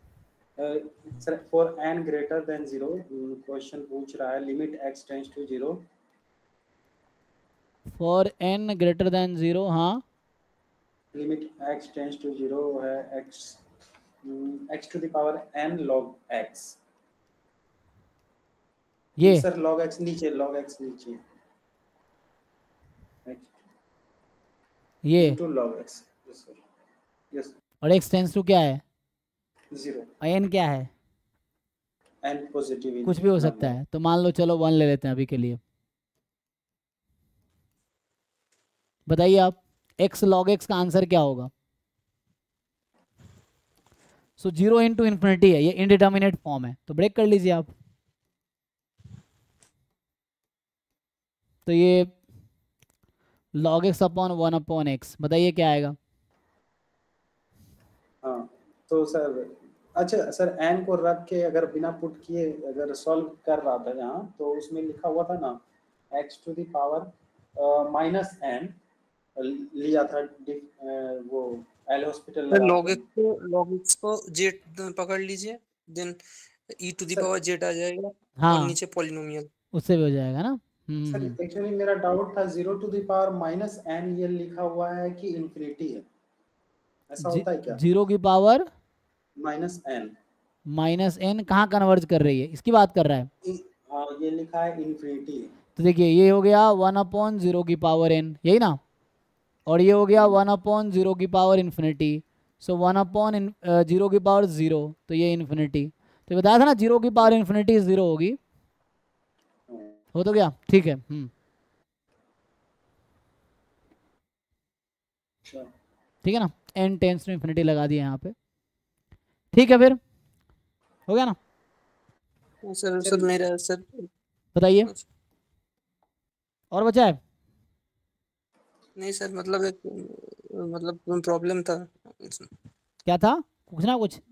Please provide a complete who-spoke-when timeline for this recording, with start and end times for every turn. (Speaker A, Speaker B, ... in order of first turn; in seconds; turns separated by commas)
Speaker A: 0.6-5.8, Speaker B: 8.0-10.0, Speaker A: 11.1-13.6, Speaker A: 14.2-16.8, Speaker B: 19.2-19.4, Speaker A: 19.2-21.2, Speaker A: 23.2-23.5, Speaker B: 25.1-25.4, Speaker A: 25.2-26.6, Speaker B: 27.8-28.8, Speaker A: 29.7-30.1, Speaker B: 30.2-30.9, Speaker A: 32.2-33.8, Speaker B: 33.1-35.6, Speaker B: 39.1-41.5, Speaker B: 44.4-47.7, Speaker B: 51.7-52.1, Speaker B: 53.6-56.0, Speaker A: 58.2-65.6, Speaker A: 66.1-68.8, Speaker A: 69.4-73.0, Speaker C: 72.5-76.2, Speaker C: 76.8-79.5, Speaker B: 78.4-78.8, Speaker B: 79.7-81.3, Speaker A: 81.1-86.1, Speaker A: 87.1-87.8, Speaker B: 87.2-88.6, Speaker A: 89.4-90.1, Speaker B: 90.7-93.3, Speaker A: 93.5-95.5, Speaker B: 95.8-98.8, Speaker B: 99.7-108.4, Speaker A: 109.7-110.0, Speaker B: 110.1-111.3, Speaker B: 116.2-118.3, Speaker B: 119.5-120.0, Speaker B: 121.1-121.4, Speaker C: 122.6-124.1, Speaker A: 123.0-123.3, Speaker B: 124.5-124.9, Speaker B: 126.7-127.2, Speaker C: 129.0-132.5, Speaker B: 133.1-134.2